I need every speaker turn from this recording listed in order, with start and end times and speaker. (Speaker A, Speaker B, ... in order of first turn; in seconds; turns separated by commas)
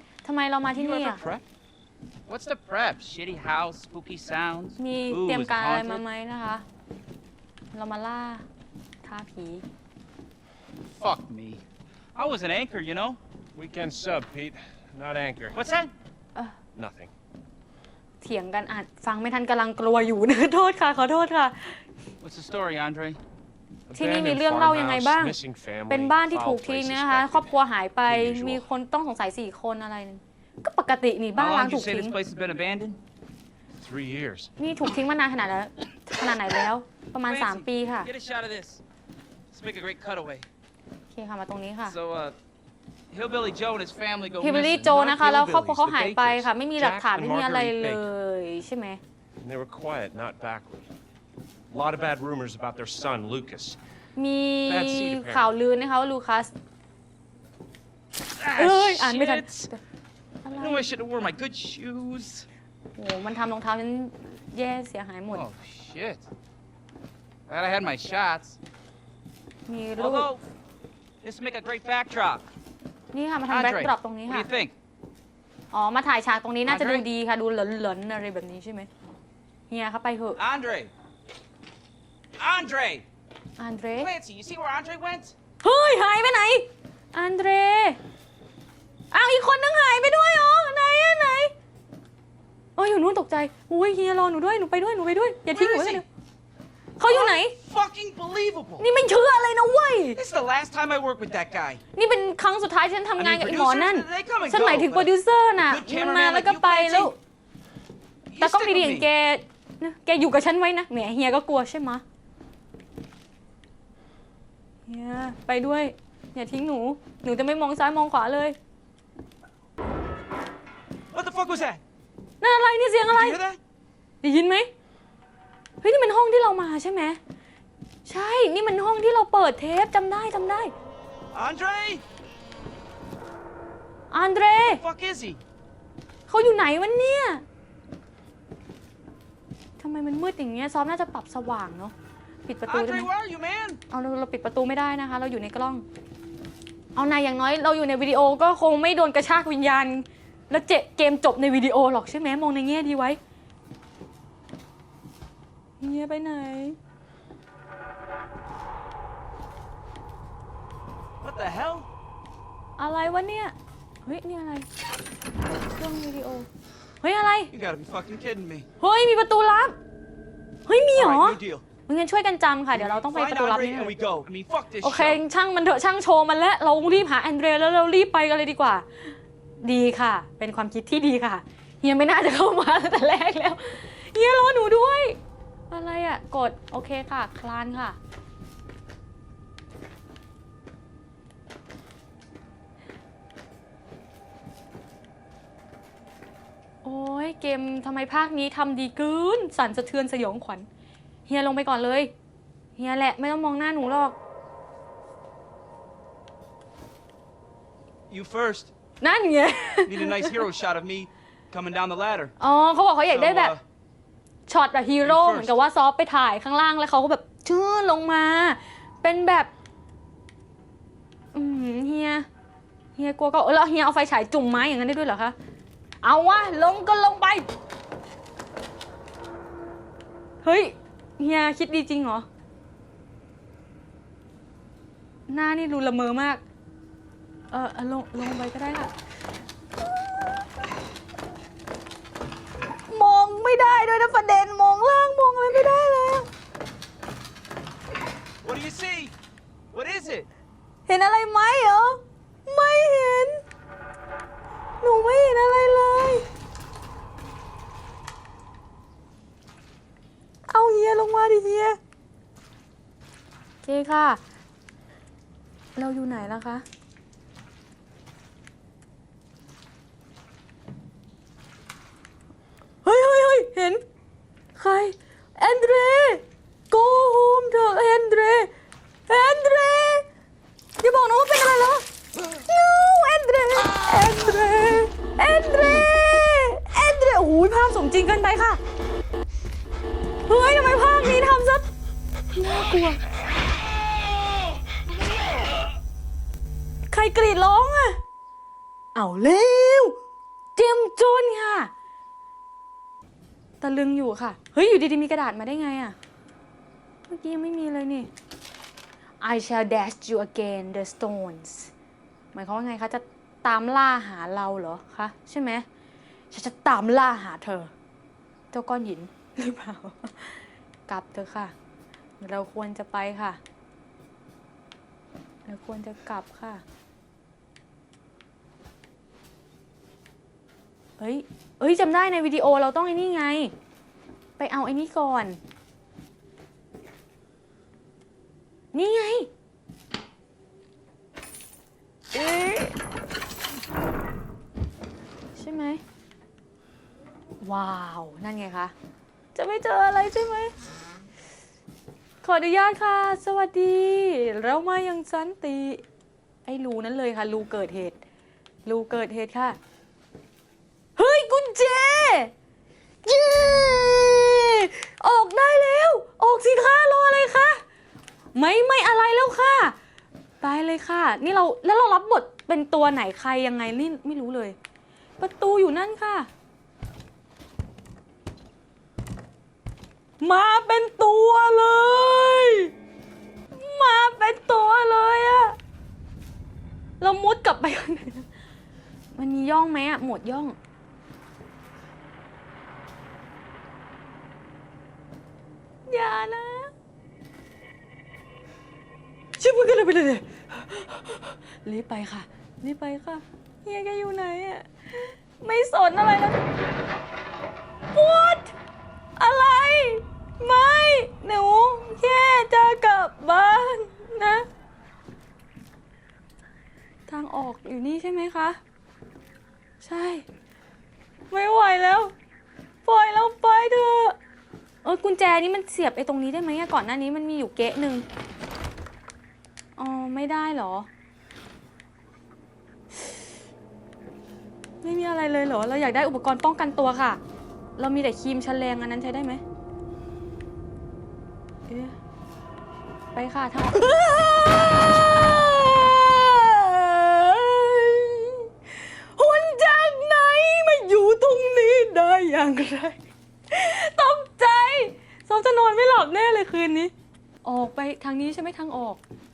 Speaker A: 0.2-1.2, Speaker B: 0.8-1.4, Speaker B: 2.3-6.0, Speaker A: 4.8-6.6, Speaker A: 7.7-8.4, Speaker A: 9.0-9.7, Speaker B: 11.0-11.6, Speaker B: 12.2-13.2, Speaker C: 13.6-15.6, Speaker B: 15.5-15.9, Speaker C: 16.8-17.1, Speaker A: 18.2-21.8, Speaker B: 22.2-23.2, Speaker C: 23.9-27.5, Speaker A: 23.9-32.1, Speaker C: 28.1-28.6, Speaker B: 31.4-33.0, Speaker C: 33.8-34.5, Speaker A: 34.6-38.1, Speaker B: 37.2-38.8, Speaker B: 39.5-40.5, Speaker A: 41.1-42.0, Speaker B: 41.9-42.4, Speaker B: 43.1-46.5, Speaker A: 44.4-49.0, Speaker C: 46.8-48.1, Speaker C: 49.4-50.9, Speaker C: 51.7-53.8, Speaker A: 54.2-56.5, Speaker C: 54.7-55.5, Speaker B: 58.4-59.7, Speaker A: 58.5-59.8, Speaker A: 60.5-60.8, Speaker B: 60.6-62.5, Speaker A: 63.0-65.5, Speaker B: 65.3-66.2, Speaker B: 67.5-68.6, Speaker A: 69.7-70.3, Speaker B: 70.0-70.4, Speaker B: 71.2-72.5, Speaker A: 73.1-74.5, Speaker B: 73.5-74.7, Speaker A: 75.7-78.9, Speaker B: 76.7-77.0, Speaker A: 79.7-80.4, Speaker B: 80.4-80.9, Speaker B: 82.4-83.0, Speaker A: 83.6-84.1, Speaker B: 84.0-85.3, Speaker A: 85.6-88.0, Speaker A: 89.1-91.5, Speaker A: 92.8-96.1, Speaker B: 95.5-96.0, Speaker A: 97.0-97.5, Speaker B: 97.1-98.9, Speaker A: 98.8-100.2, Speaker B: 100.2-101.8, Speaker A: 101.9-107.2, Speaker B: 103.2-107.1, Speaker B: 108.3-109.1, Speaker A: 108.4-112.0, Speaker A: 114.9-118.6, Speaker B: 121.1-121.8, Speaker A: 122.4-123.4, Speaker B: 123.1-123.6, Speaker A: 124.2-124.7, Speaker A: 125.8-127.2, Speaker A: 128.1-130.7, Speaker B: 131.3-132.0, Speaker A: 134.1-134.8, Speaker B: 134.7-135.4, Speaker A: 136.3-137.4, Speaker A: 139.8-141.9, Speaker A: 142.5-143.1, Speaker B: 142.7-143.8, Speaker A: 143.9-145.9, Speaker A: 147.0-153.2, Speaker A: 155.8-156.8, Speaker B: 161.2-161.9, Speaker A: 162.8-164.7, Speaker A: 165.7-166.5, Speaker A: 167.0-167.5, Speaker B: 167.5-168.7, Speaker A: 168.8-169.8, Speaker A: 170.7-173.9, Speaker B: 171.0-171.6, Speaker B: 172.7-175.2, Speaker A: 174.8-185.2, Speaker A: 185.7-188.0, Speaker A: 196.8-200.7, Speaker A: 201.3-202.1, Speaker A: 202.8-204.2, Speaker B: 208.1-208.7, Speaker A: 209.0-210.4, Speaker B: 209.9-212.3, Speaker A: 212.4-213.6, Speaker B: 213.1-213.6, Speaker A: 214.5-219.5, Speaker B: 215.0-215.6, Speaker A: 221.3-222.3, Speaker A: 223.0-225.4, Speaker A: 226.0-227.4, Speaker A: 230.4-232.3, Speaker A: 235.3-236.4, Speaker A: 237.5-238.9, Speaker A: 239.8-240.4, Speaker A: 242.9-246.3, Speaker B: 248.4-249.1, Speaker B: 249.7-250.3, Speaker A: 250.9-253.4, Speaker A: 254.8-256.2, Speaker A: 260.5-261.8, Speaker A: 263.6-264.2, Speaker A: 265.8-266.6, Speaker A: 272.9-273.8, Speaker A: 274.6-278.5, Speaker A: 279.1-280.1, Speaker A: 280.8-281.8, Speaker A: 282.4-288.6, Speaker A: 290.3-291.7, Speaker A: 292.3-293.0, Speaker A: 296.9-298.0, Speaker A: 298.9-300.0, Speaker A: 300.6-301.7, Speaker A: 303.6-306.0, Speaker A: 307.1-308.1, Speaker A: 309.2-311.7, Speaker A: 312.3-315.6, Speaker A: 316.3-317.7, Speaker A: 318.5-321.5, Speaker A: 322.2-323.4, Speaker A: 325.5-326.6, Speaker A: 331.0-333.5, Speaker A: 334.4-335.4, Speaker A: 338.7-339.3, Speaker A: 342.1-342.8, Speaker A: 345.4-345.8, Speaker A: 347.4-348.7, Speaker A: 349.4-350.5, Speaker A: 352.2-355.8, Speaker A: 356.4-358.0, Speaker A: 358.6-359.6, Speaker A: 361.0-362.3, Speaker A: 363.1-367.6, Speaker A: 368.4-369.8, Speaker A: 370.4-374.6, Speaker A: 375.2-376.3, Speaker A: 380.2-382.7, Speaker A: 383.5-385.6, Speaker A: 387.0-388.3, Speaker A: 389.1-390.6, Speaker A: 395.9-396.7, Speaker A: 399.4-406.4, Speaker A: 407.9-408.5, Speaker A: 409.2-414.5, Speaker A: 417.1-418.6, Speaker A: 419.8-420.3, Speaker A: 421.3-422.1, Speaker A: 422.9-424.2, Speaker A: 424.8-428.1, Speaker A: 429.8-430.9, Speaker A: 434.8-437.2, Speaker A: 437.8-439.4, Speaker A: 441.7-442.0, Speaker A: 443.1-453.0, Speaker A: 453.5-456.9, Speaker A: 457.4-459.0